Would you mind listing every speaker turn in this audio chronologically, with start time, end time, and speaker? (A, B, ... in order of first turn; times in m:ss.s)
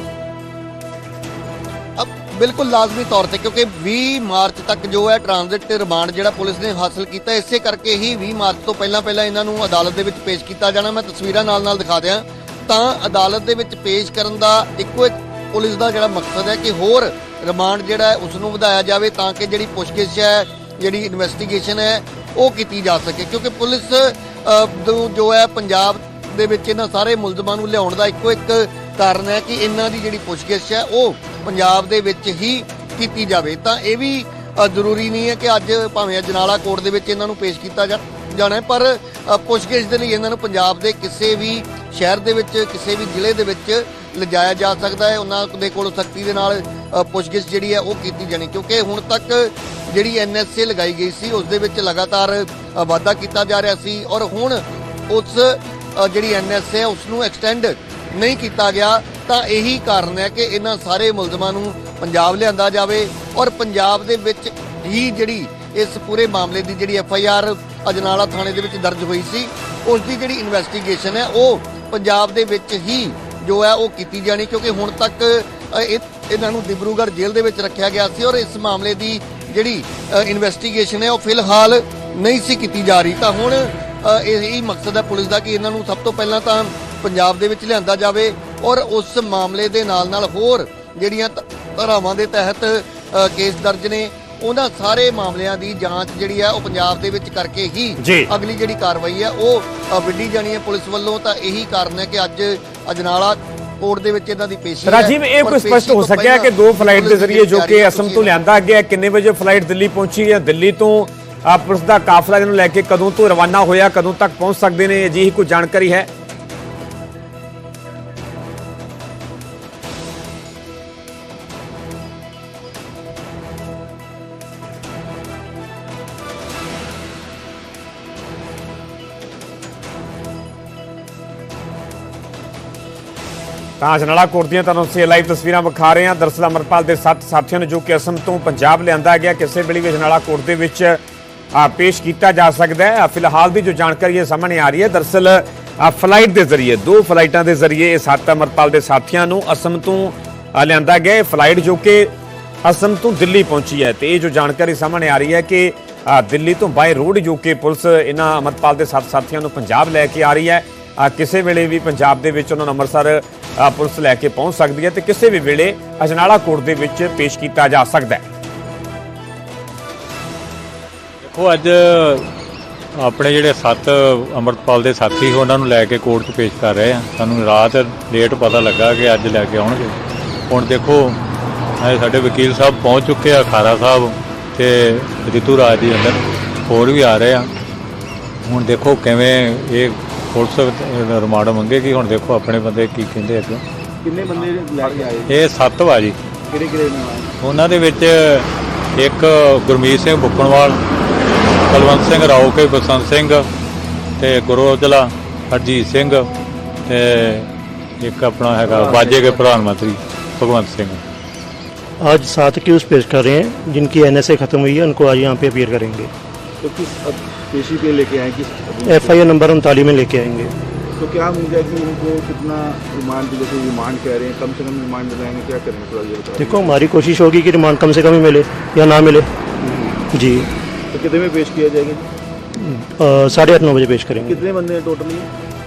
0:02.0-1:48.3 A
1:38.0-1:38.3 B
1:44.9-1:56.1 B
2:13.8-2:21.0 B
2:21.5-2:32.1 B
2:32.6-2:48.2 B
2:51.2-2:52.3 C
2:53.0-3:00.0 C
3:00.5-3:01.2 C
3:01.8-3:07.5 C
3:08.4-3:13.6 C
3:14.0-3:15.5 D
3:14.3-3:16.2 C
3:16.5-3:17.3 D
3:17.4-3:20.8 C
3:21.7-3:23.5 C
3:24.2-3:26.3 C
3:26.8-3:27.5 C
3:28.0-3:31.0 C
3:28.6-3:29.4 D
3:32.0-3:36.1 E
3:36.6-3:39.3 D
3:38.8-3:40.5 E
3:41.0-3:46.9 D
3:46.4-3:49.3 E
3:49.6-3:50.0 D
3:50.1-3:50.5 E
3:50.9-3:52.1 D
3:52.6-3:54.4 E
3:54.2-3:55.3 D